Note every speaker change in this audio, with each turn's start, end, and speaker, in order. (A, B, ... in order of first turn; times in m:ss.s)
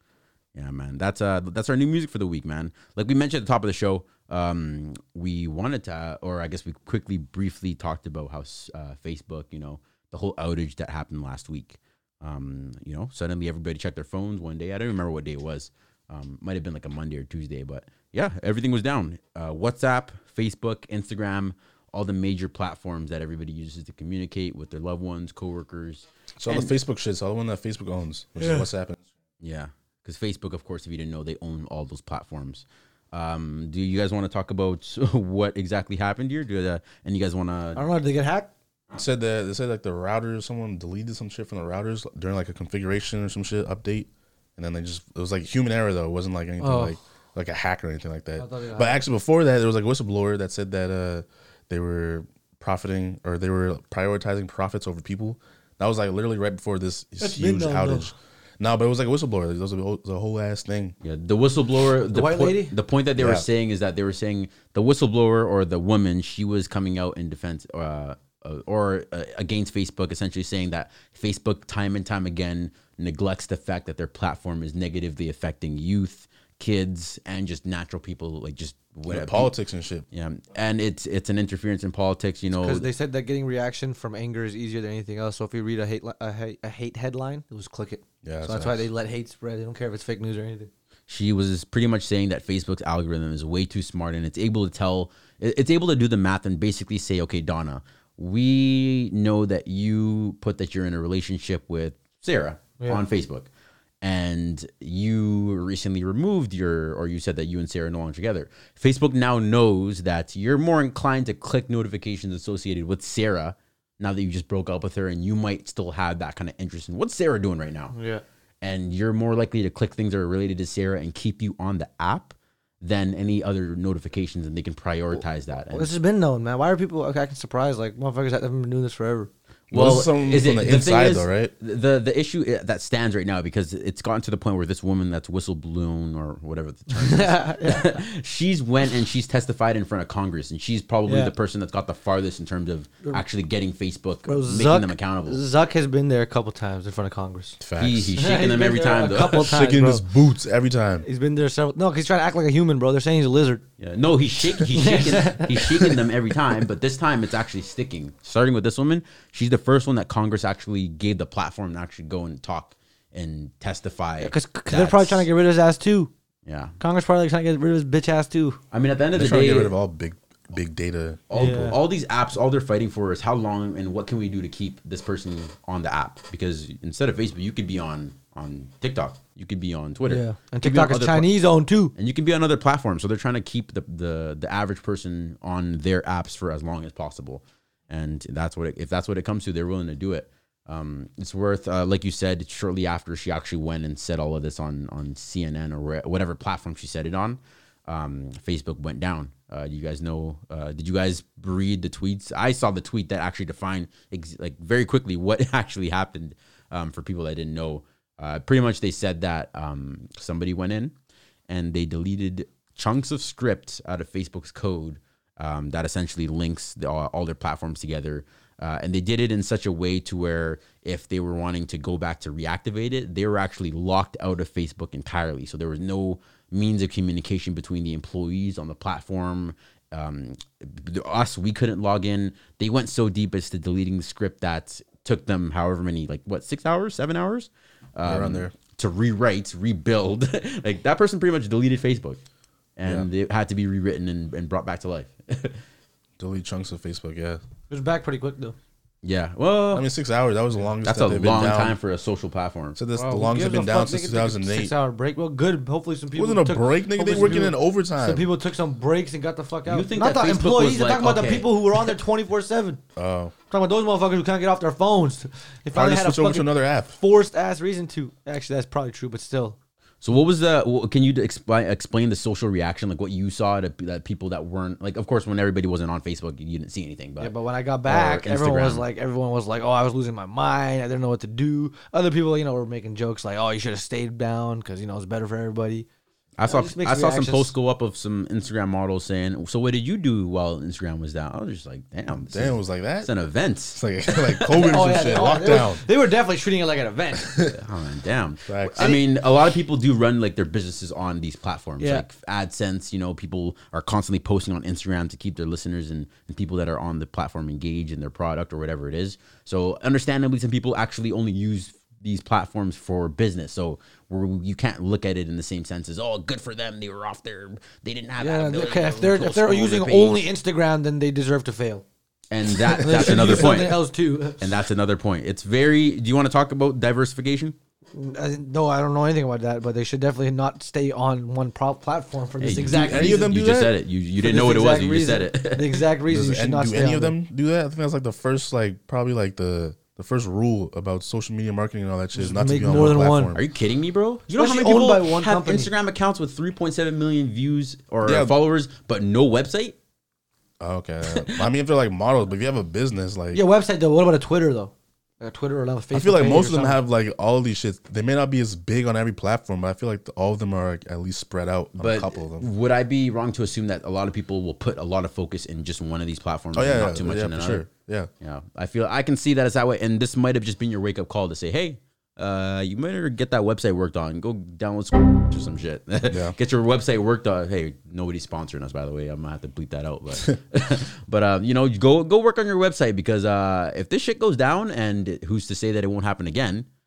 0:00.5-0:26.1 A
0:26.4-0:29.0 B
0:29.4-0:37.8 A
0:37.7-0:38.5 C
0:38.9-1:00.9 B
0:46.6-0:47.0 C
0:48.4-0:49.0 C
0:57.2-0:58.1 C
1:01.0-1:19.5 A
1:02.1-1:02.7 C
1:03.2-1:03.4 B
1:19.1-1:20.0 B
1:20.1-1:22.9 A
1:22.6-1:30.7 C
1:28.2-1:28.9 B
1:31.1-1:43.5 A
1:44.0-1:57.9 A
1:57.9-1:58.2 C
1:58.6-2:05.9 A
2:05.7-2:09.3 C
2:09.7-2:25.4 A
2:09.7-2:11.5 B
2:16.9-2:18.0 C
2:21.0-2:21.3 C
2:24.3-2:27.6 C
2:27.6-2:28.1 B
2:27.8-2:29.5 A
2:28.2-2:30.0 C
2:29.3-2:31.0 B
2:31.0-2:33.6 C
2:33.8-2:45.3 A
2:34.8-2:35.5 C
2:44.2-2:46.1 C
2:46.4-2:46.7 A
2:46.8-2:48.6 C
2:48.7-2:49.7 A
2:49.1-2:51.5 B
2:51.3-3:01.3 A
2:51.3-2:51.8 C
3:00.0-3:01.9 C
3:01.9-3:30.9 A
3:31.5-4:02.2 A
3:58.0-3:58.5 B
4:02.8-4:05.6 A
4:06.2-4:07.4 B
4:07.7-4:08.6 C
4:09.0-4:09.9 A
4:09.7-4:11.8 B
4:10.8-4:12.8 A
4:12.7-4:14.7 B
4:12.9-4:22.8 C
4:16.1-4:18.3 B
4:19.6-4:21.9 A
4:23.0-4:23.3 B
4:23.5-4:29.6 C
4:25.7-4:27.0 B
4:30.0-4:38.8 A
4:37.2-4:45.8 C
4:46.4-4:54.6 A
4:46.5-4:47.5 C
4:52.3-4:53.1 B
4:53.7-4:55.8 B
4:54.6-4:57.3 C
4:57.2-4:57.5 B
4:57.5-5:20.2 A
4:58.5-4:59.0 B
5:01.8-5:02.0 C
5:18.2-5:21.8 C
5:22.3-5:27.5 A
5:22.8-5:24.4 C
5:27.9-5:33.3 C
5:32.4-5:35.8 A
5:32.7-5:33.7 B
5:34.2-5:37.2 C
5:36.1-5:43.4 B
5:42.1-5:43.3 C
5:43.3-5:49.8 A
5:44.4-5:45.7 C
5:48.0-5:48.3 B
5:50.6-5:53.4 B
5:53.3-5:56.8 C
5:55.9-6:02.5 B
6:01.8-6:07.6 A
6:06.5-6:08.1 B
6:08.2-6:26.7 A
6:16.1-6:16.3 B